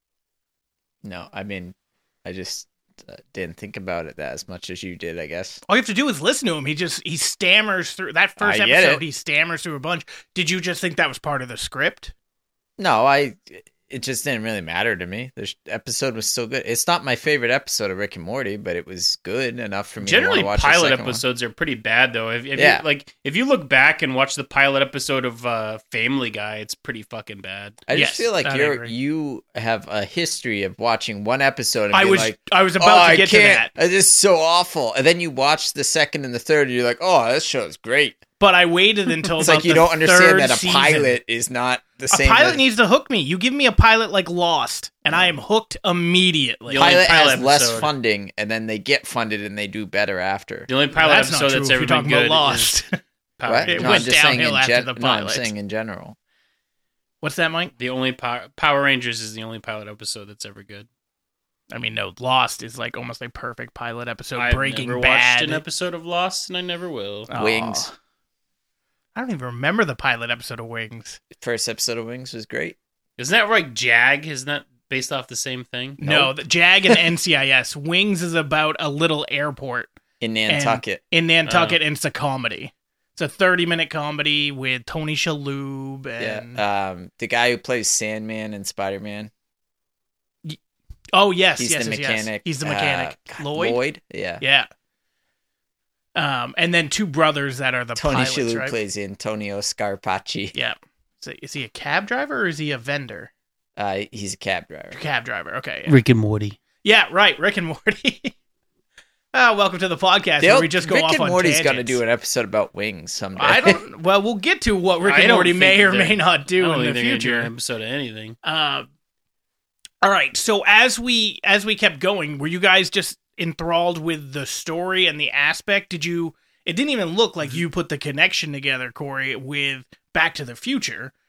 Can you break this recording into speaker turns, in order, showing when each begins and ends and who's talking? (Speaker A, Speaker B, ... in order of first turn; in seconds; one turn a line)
Speaker A: 1.0-5.6
Speaker B: 5.7-12.1
Speaker A: 8.4-9.0
Speaker A: 12.8-21.2
Speaker C: 20.0-27.8
Speaker A: 22.5-22.8
Speaker A: 27.9-38.2
Speaker B: 27.9-28.9
Speaker B: 31.9-33.7
Speaker B: 38.4-41.1
Speaker A: 39.4-42.6
Speaker B: 42.1-47.0
Speaker A: 45.1-45.3
Speaker C: 46.7-47.9
Speaker A: 46.8-50.7
Speaker C: 50.7-52.8
Speaker B: 50.9-53.0
Speaker C: 53.4-54.1
Speaker A: 53.5-56.1
Speaker B: 53.7-55.5
Speaker B: 57.2-57.7
Speaker C: 57.8-60.9
Speaker B: 61.7-65.6
Speaker C: 64.3-67.3
Speaker B: 67.3-67.9
Speaker A: 67.3-67.9
Speaker B: 69.1-71.2
Speaker A: 71.3-72.8
Speaker C: 73.2-76.0
Speaker B: 76.0-79.9
Speaker A: 76.0-76.3
Speaker A: 80.2-81.0
Speaker B: 80.5-86.6
Speaker C: 81.5-81.8
Speaker A: 86.2-89.3
Speaker B: 91.1-93.8
Speaker A: 91.6-94.4
Speaker B: 94.4-94.7
Speaker B: 96.2-98.8
Speaker A: 98.0-100.5
Speaker B: 100.5-103.3
Speaker A: 103.8-105.0
Speaker B: 104.9-106.0
Speaker C: 105.9-106.6
Speaker B: 106.8-108.3
Speaker B: 109.3-112.0
Speaker A: 110.4-113.8
Speaker B: 113.3-117.5
Speaker C: 115.0-118.4
Speaker B: 118.4-118.9
Speaker B: 120.0-131.1